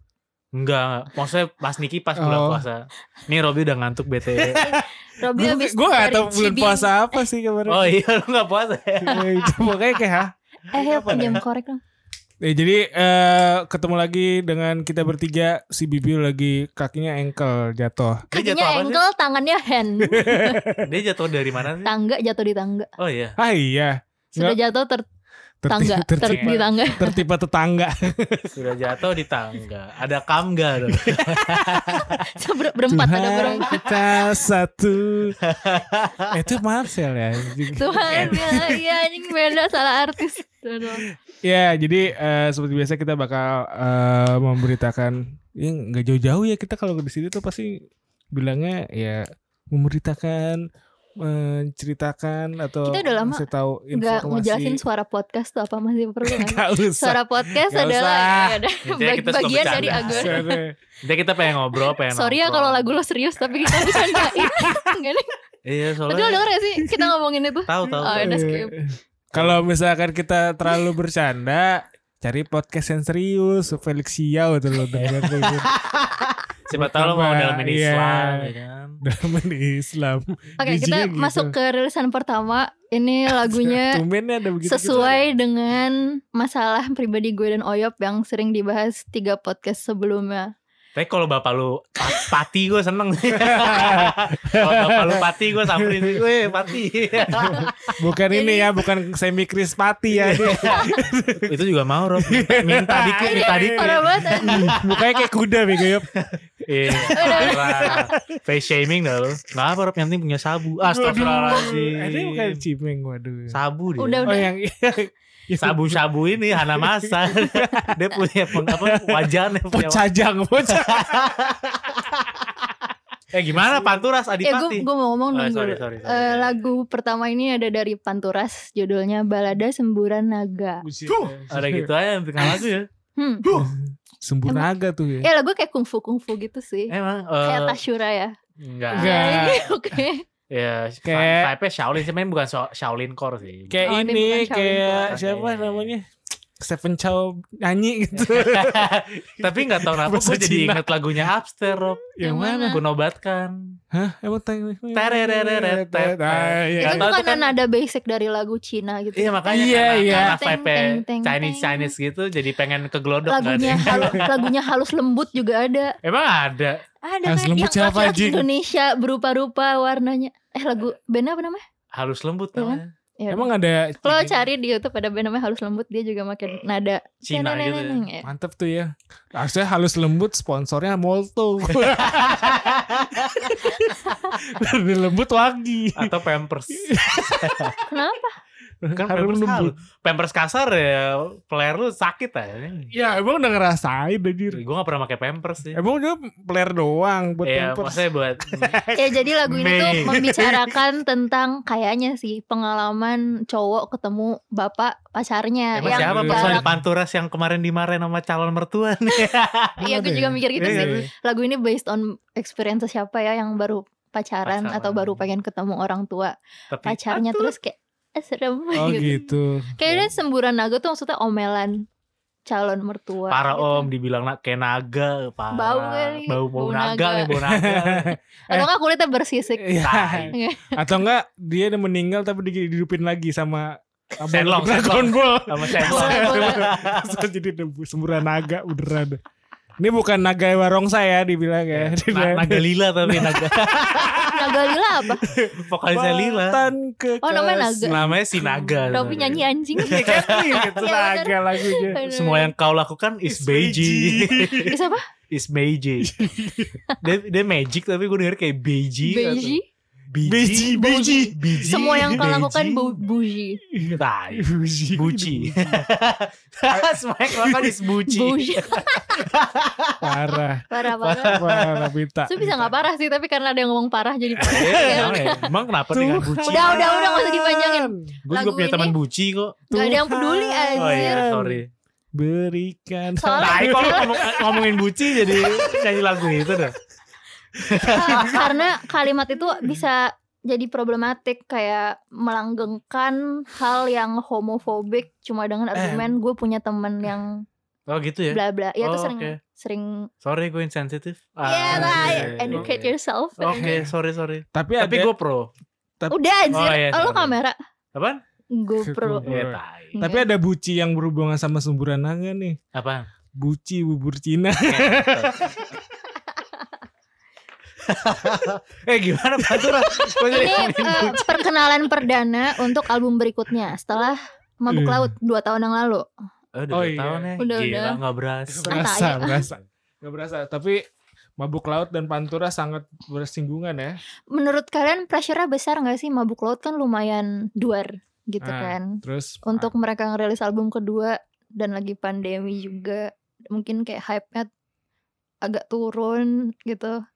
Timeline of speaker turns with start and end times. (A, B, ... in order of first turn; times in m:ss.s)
0:00.6-0:04.6 A
0:02.2-0:02.6 B
0:04.3-0:08.0 B
0:04.6-0:07.2 C
0:07.7-0:09.7 A
0:09.0-0:11.4 B
0:10.7-0:11.8 C
0:11.0-0:11.4 A
0:12.4-0:18.3 B
0:18.3-0:20.6 C
0:18.3-0:19.0 A
0:20.0-0:21.0 B
0:20.8-0:21.9 A
0:21.8-0:22.9 C
0:23.0-0:23.4 A
0:23.4-0:24.6 B
0:24.4-0:25.0 C
0:25.6-0:28.6 B
0:25.7-0:27.2 C
0:26.2-0:26.6 A
0:28.5-0:32.1 A
0:30.8-0:32.2 B
0:32.1-0:33.8 C
0:32.9-0:35.4 B
0:35.4-0:36.4 A
0:36.3-0:39.3 B
0:37.7-0:41.0 C
0:38.1-0:38.6 A
0:41.1-0:47.8 B
0:48.3-0:50.6 B
0:51.2-0:54.8 B
0:52.8-1:00.6 C
0:56.2-0:58.6 B
0:58.8-1:00.5 A
0:59.7-1:00.8 B
1:01.0-1:03.0 A
1:01.8-1:05.3 C
1:03.6-1:04.9 B
1:05.6-1:06.5 A
1:06.1-1:08.8 C
1:06.8-1:07.1 B
1:07.7-1:08.4 A
1:08.1-1:15.7 B
1:09.3-1:09.6 A
1:14.9-1:19.0 A
1:16.7-1:18.5 B
1:19.0-1:21.5 B
1:20.6-1:24.0 C
1:23.4-1:25.2 B
1:24.6-1:30.5 C
1:24.8-1:25.3 A
1:31.0-1:38.0 A
1:32.1-1:32.3 B
1:33.3-1:36.7 B
1:37.2-1:41.6 B
1:37.5-1:38.7 C
1:40.1-1:45.2 A
1:40.6-1:41.1 C
1:42.1-1:46.1 B
1:43.2-1:44.8 C
1:46.1-1:52.6 A
1:46.8-1:48.4 B
1:47.1-1:48.1 C
1:50.8-1:53.6 B
1:53.5-1:54.3 A
1:54.0-1:54.5 C
1:54.2-2:02.7 B
1:55.6-2:00.1 A
2:00.8-2:01.7 A
2:03.3-2:06.6 A
2:04.4-2:10.8 C
2:10.8-2:12.7 B
2:11.1-2:12.9 A
2:13.2-2:13.4 C
2:13.4-2:13.7 A
2:13.5-2:15.3 B
2:15.2-2:18.3 C
2:16.9-2:17.8 A
2:18.6-2:19.6 A
2:18.9-2:19.7 B
2:18.9-2:20.2 C
2:20.5-2:23.9 A
2:21.0-2:21.5 B
2:23.7-2:26.1 B
2:23.8-2:25.1 C
2:24.9-2:25.9 A
2:26.6-2:32.8 B
2:28.2-2:33.8 A
2:32.2-2:32.8 C
2:33.9-2:37.1 B
2:34.9-2:37.5 A
2:36.8-2:41.9 C
2:39.2-2:44.4 A
2:39.5-2:40.4 B
2:43.2-2:46.0 C
2:43.7-2:44.3 B
2:46.0-2:46.8 A
2:47.0-2:51.6 C
2:47.2-2:48.5 B
2:51.9-2:52.9 A
2:52.6-2:53.5 C
2:53.3-2:54.4 B
2:54.0-2:58.3 C
2:57.2-2:58.0 A
2:58.2-3:06.2 B
3:01.7-3:03.6 A
3:03.9-3:04.3 C
3:06.0-3:07.8 A
3:06.7-3:07.8 B
3:07.9-3:08.4 C
3:08.8-3:09.7 B
3:09.0-3:12.9 A
3:12.9-3:14.6 B
3:14.5-3:15.8 A
3:15.7-3:20.7 B
3:17.4-3:18.8 A
3:19.0-3:26.6 C
3:19.5-3:20.3 A
3:25.8-3:29.8 A
3:25.8-3:26.8 B
3:29.8-3:39.2 C
3:29.8-3:31.1 B
3:30.6-3:31.0 A
3:34.4-3:35.2 A
3:36.7-3:37.5 A
3:38.8-3:40.1 B
3:39.8-3:41.8 C
3:42.5-3:43.9 C
3:43.3-3:48.2 A
3:45.5-3:47.4 C
3:47.4-3:48.7 B
3:48.5-3:49.7 C
3:49.6-3:59.2 B
3:49.8-3:50.3 A
3:50.3-3:50.8 C
3:54.3-3:57.2 A
3:55.8-3:56.6 C
3:59.8-4:12.0 B
4:01.7-4:04.2 A
4:04.3-4:05.2 C
4:05.7-4:06.6 A
4:07.2-4:08.0 C
4:07.8-4:10.8 A
4:08.9-4:12.5 C
4:12.0-4:14.8 A
4:13.3-4:14.8 B
4:14.7-4:15.0 C
4:15.3-4:16.1 A
4:16.0-4:16.8 B
4:17.0-4:19.6 A
4:19.0-4:19.6 C
4:20.1-4:23.0 A
4:20.2-4:22.2 B
4:20.8-4:23.6 C
4:23.7-4:25.8 B
4:23.9-4:30.2 A
4:26.7-4:27.8 B
4:28.1-4:29.2 C
4:30.0-4:32.7 B
4:30.7-4:31.4 C
4:31.0-4:31.9 A
4:32.3-4:35.5 C
4:34.4-4:36.8 A
4:34.4-4:38.1 B
4:36.4-4:38.9 C
4:38.3-4:39.6 A
4:39.7-4:41.2 C
4:39.7-4:41.6 B
4:40.8-4:41.7 A
4:42.1-4:45.7 B
4:43.2-4:44.2 C
4:43.4-4:46.8 A
4:45.5-4:45.8 C
4:47.6-4:48.4 B
4:47.6-4:48.5 A
4:47.8-4:57.4 C
4:55.7-4:56.2 B
4:57.9-4:59.4 A
4:58.3-5:00.1 C
5:00.2-5:05.5 A
5:01.4-5:03.8 C
5:01.7-5:02.7 B
5:03.5-5:03.9 B
5:04.5-5:05.1 B
5:06.1-5:07.6 C
5:06.5-5:07.4 A
5:07.9-5:08.2 A
5:08.5-5:09.3 C
5:08.8-5:12.6 B
5:09.2-5:09.9 A
5:09.9-5:10.3 C
5:12.7-5:13.1 A
5:13.3-5:15.8 B
5:14.7-5:15.7 A
5:17.8-5:21.4 A
5:19.4-5:19.8 B
5:20.2-5:26.0 C
5:20.9-5:21.2 B
5:24.7-5:25.1 B
5:26.5-5:29.1 A
5:26.7-5:27.3 B
5:27.4-5:28.0 C
5:28.5-5:30.8 B
5:28.7-5:29.4 C
5:31.4-5:34.0 B
5:34.3-5:44.5 C
5:38.4-5:39.7 B
5:45.4-5:47.0 C